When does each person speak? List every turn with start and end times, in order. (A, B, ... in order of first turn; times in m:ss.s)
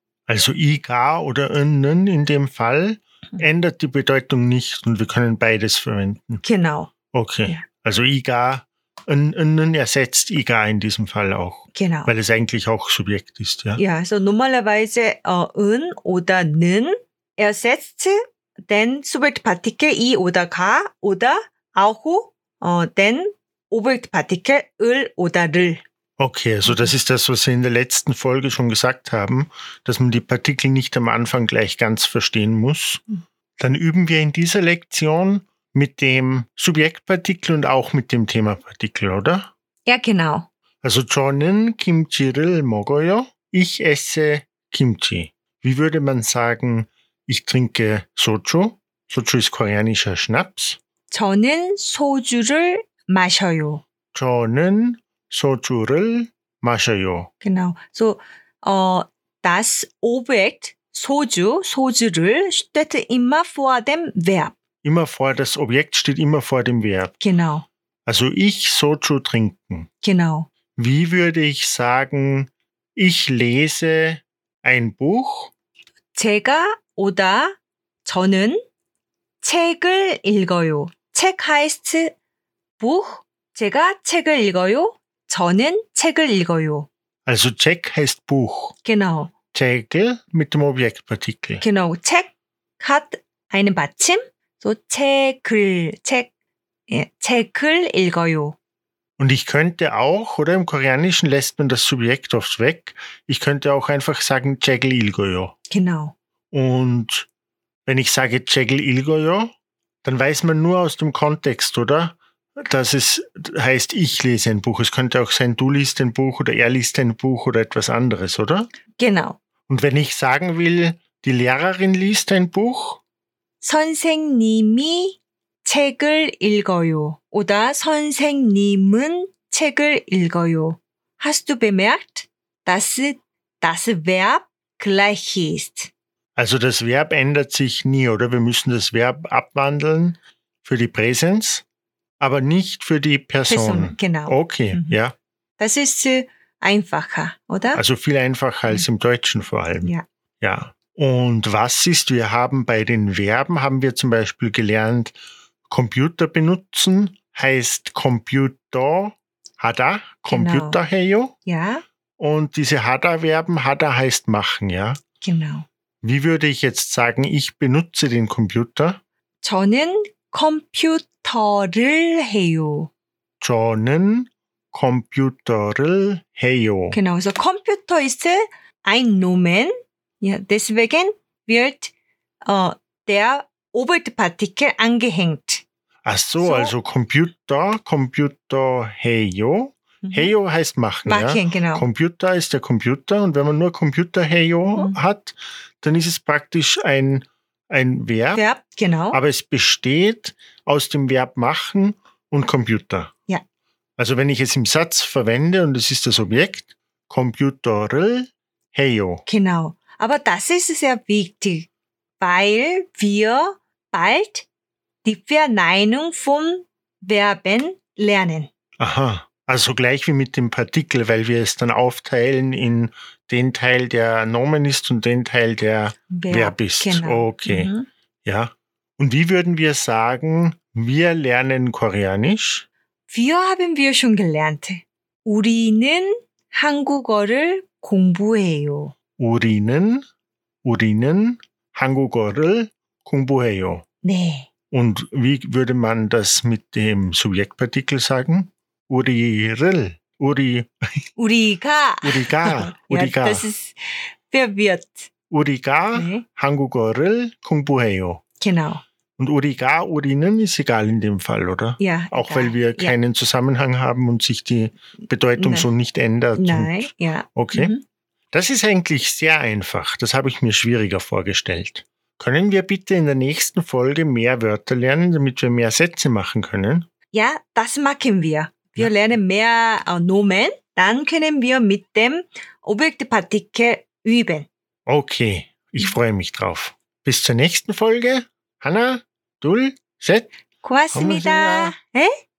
0:00.3-0:06.4 A
0:06.4-0:06.9 B
0:07.1-0:13.8 A
0:11.7-0:12.1 B
0:13.8-0:25.8 B
0:26.2-0:33.0 A
0:33.6-0:39.5 A
0:39.9-0:40.5 B
0:40.8-0:50.8 A
0:51.1-0:53.8 B
0:54.1-0:57.3 A
0:57.4-1:04.6 B
1:04.8-1:07.2 A
1:07.2-1:07.7 B
1:08.1-1:09.9 A
1:10.0-1:10.5 B
1:10.8-1:15.5 A
1:16.2-1:18.6 B
1:19.4-1:22.1 B
1:22.8-1:26.9 B
1:27.3-1:28.8 A
1:28.8-1:29.3 B
1:29.5-1:31.6 A
1:31.6-1:36.3 B
1:36.9-1:38.6 B
1:39.2-1:45.6 A
1:45.7-1:46.2 B
1:46.5-1:47.3 A
1:47.9-1:49.5 A
1:50.0-1:58.7 A
1:59.0-1:59.4 B
1:59.7-2:03.0 A
2:03.6-2:15.9 B
2:16.4-2:21.6 A
2:22.2-2:25.2 A
2:23.5-2:25.0 B
2:25.6-2:27.8 B
2:27.7-2:35.2 A
2:35.7-2:41.3 A
2:40.3-2:40.8 B
2:41.5-2:41.8 B
2:42.2-2:45.0 A
2:45.2-2:45.7 B
2:46.0-2:49.0 A
2:49.4-2:52.9 B
2:53.4-2:57.0 A
2:56.9-3:01.9 B
3:02.4-3:05.6 B
3:06.0-3:18.4 A
3:06.4-3:06.7 B
3:10.0-3:10.3 B
3:11.1-3:11.9 B
3:18.4-3:19.2 B
3:19.1-3:23.1 A
3:24.0-3:29.2 A
3:29.3-3:31.7 B
3:32.2-3:34.5 B
3:35.0-3:38.5 B
3:38.8-3:47.7 A
3:46.1-3:47.9 B
3:48.2-3:52.7 A
3:53.1-3:58.9 B
3:59.2-4:00.0 A
4:00.6-4:03.8 A
4:04.0-4:04.5 B
4:04.7-4:11.1 A
4:11.2-4:15.1 B
4:12.0-4:13.5 A
4:15.3-4:18.2 A
4:16.0-4:16.2 B
4:18.4-4:18.8 B
4:19.2-4:27.7 A
4:21.8-4:23.0 B
4:25.4-4:25.7 B
4:26.4-4:27.8 B
4:28.3-4:36.9 A
4:37.1-4:44.5 B
4:44.9-4:50.3 A
4:50.6-4:52.1 B
4:50.9-4:51.7 A